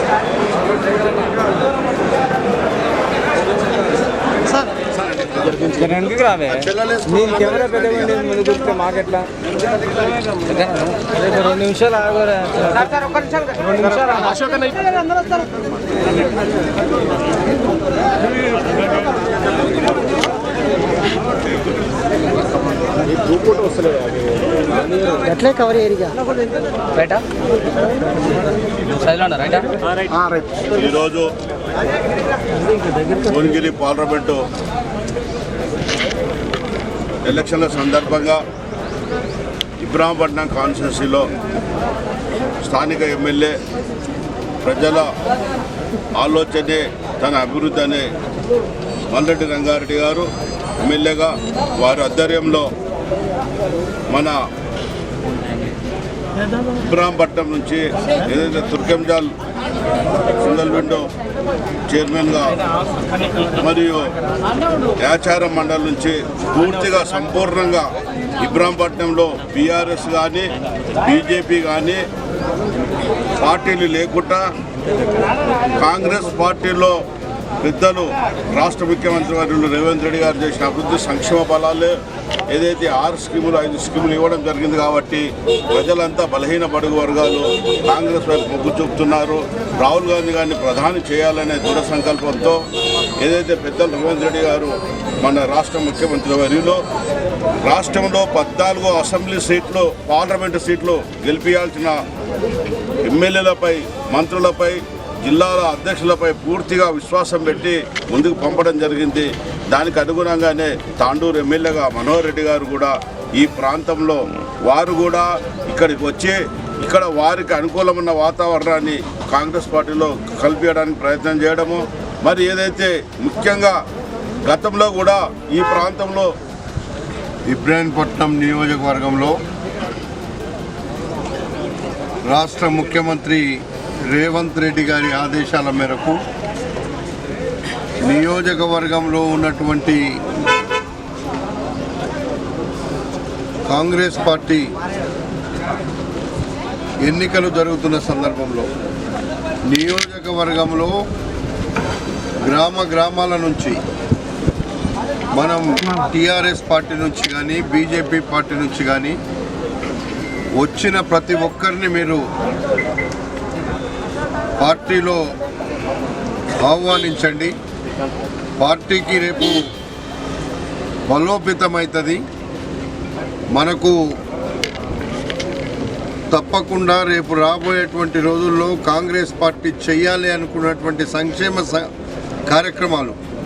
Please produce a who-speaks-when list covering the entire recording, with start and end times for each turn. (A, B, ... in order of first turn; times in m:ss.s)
0:05.4-0:05.8 A
0:05.8-0:06.4 B
0:06.4-0:08.8 A
0:08.8-0:09.2 B
0:10.7-0:12.7 B
0:13.7-0:14.3 B
0:23.3-0:23.6 C
0:25.4-0:26.1 B
0:29.1-0:29.7 B
0:30.7-0:31.3 C
0:33.2-0:34.4 C
0:37.2-0:38.4 C
0:39.8-0:41.3 C
0:42.6-0:43.6 C
0:44.6-0:45.1 C
0:46.2-0:48.1 C
0:49.1-0:50.3 C
0:50.8-0:52.7 C
0:54.1-0:54.4 C
0:56.8-0:59.3 C
1:00.3-1:01.1 C
1:01.9-1:02.6 C
1:03.6-1:04.1 C
1:05.0-1:10.5 C
1:11.0-1:12.0 C
1:13.4-1:14.5 C
1:15.7-1:17.0 C
1:17.6-1:22.0 C
1:22.5-1:32.6 C
1:33.2-1:36.8 C
1:37.6-1:41.9 C
1:43.0-2:03.8 C
2:04.4-2:06.3 C
2:07.5-2:09.3 A
2:12.3-2:13.4 A
2:14.1-2:16.2 A
2:18.0-2:20.0 A
2:23.7-2:24.7 A
2:27.0-2:28.7 A
2:29.7-2:30.9 A
2:32.4-2:33.8 A
2:35.3-2:39.2 A
2:40.6-2:42.2 A
2:44.6-2:45.2 A
2:46.6-2:47.5 A
2:48.6-2:49.6 A
2:51.1-2:52.2 A
2:53.5-2:54.0 A
2:56.3-3:01.9 A
3:02.5-3:03.2 A